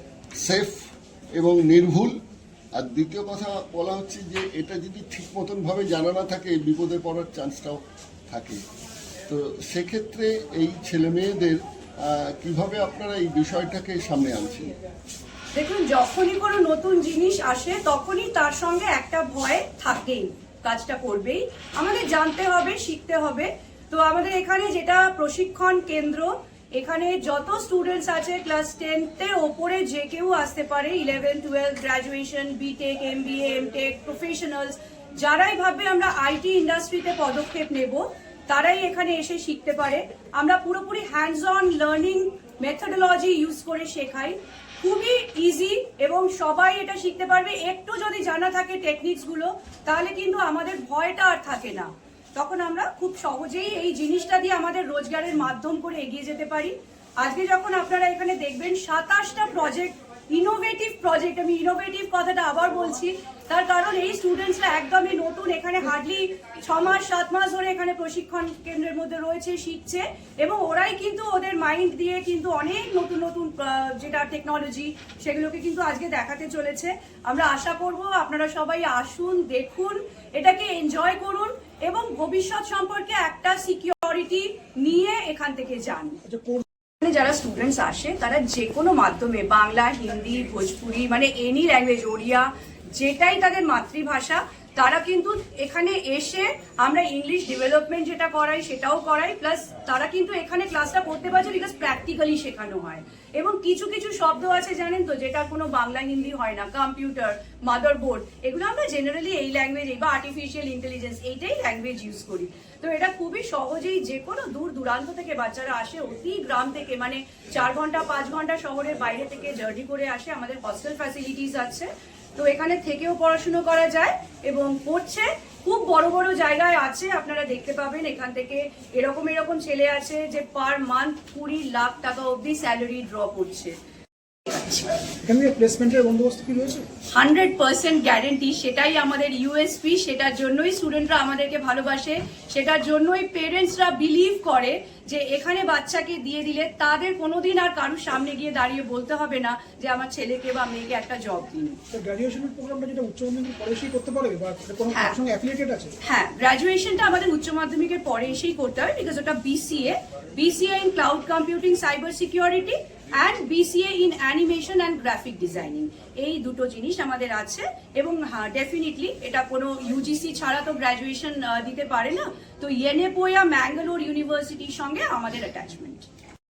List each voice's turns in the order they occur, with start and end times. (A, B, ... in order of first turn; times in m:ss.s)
0:00.4-0:02.2 A
0:02.8-0:08.6 A
0:09.3-0:14.7 A
0:15.6-1:26.2 B
1:26.2-1:26.6 C
1:27.0-2:13.8 B
2:14.5-2:14.9 B
2:15.2-2:16.8 C
2:17.1-2:31.8 B
2:31.9-2:35.9 C
2:34.9-2:35.2 B
2:36.0-2:56.1 B